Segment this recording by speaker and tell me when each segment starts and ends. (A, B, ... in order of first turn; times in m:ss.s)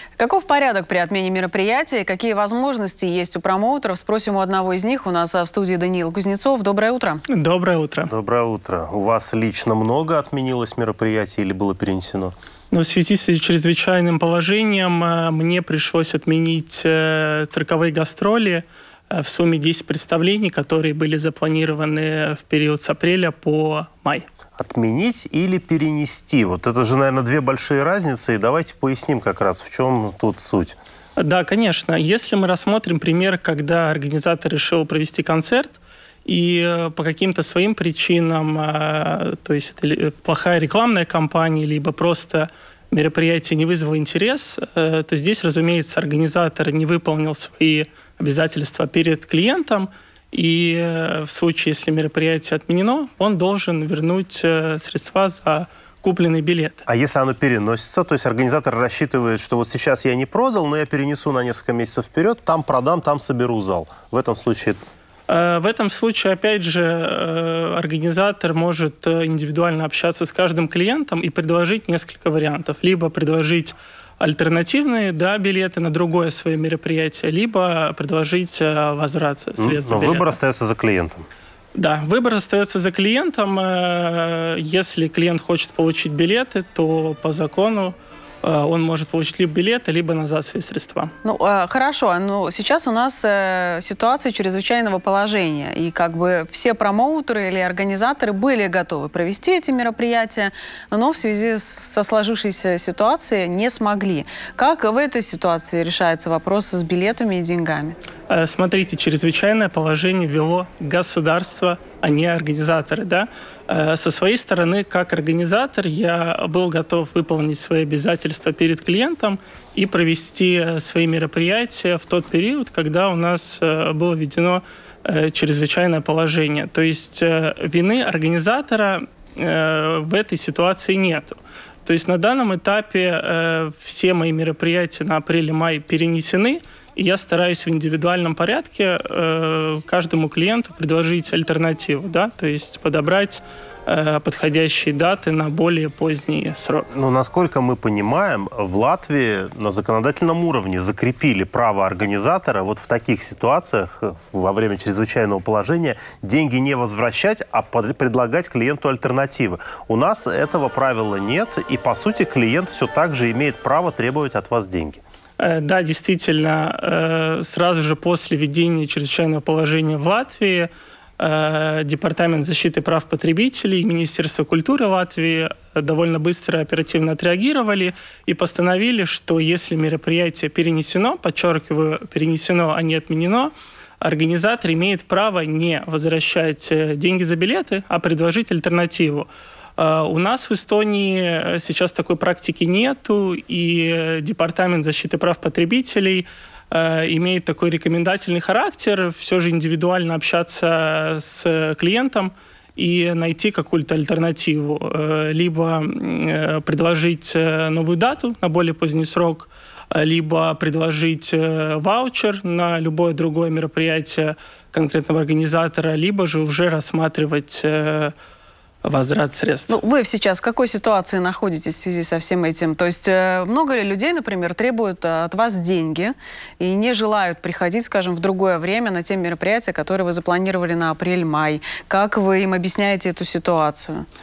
0:00.2-0:07.2 A
0:07.3-0:08.1 B
0:08.1-0:12.3 C
0:12.7-0:24.3 B
0:24.6-0:30.8 C
0:31.2-0:56.8 B
0:56.9-1:04.8 C
1:05.3-1:20.4 B
1:19.6-1:21.3 C
1:21.7-1:31.1 B
1:31.2-1:48.0 A
1:48.3-2:26.9 B
2:26.9-2:45.0 C
2:45.4-3:38.1 B
3:38.8-3:39.8 B
3:39.7-3:54.1 A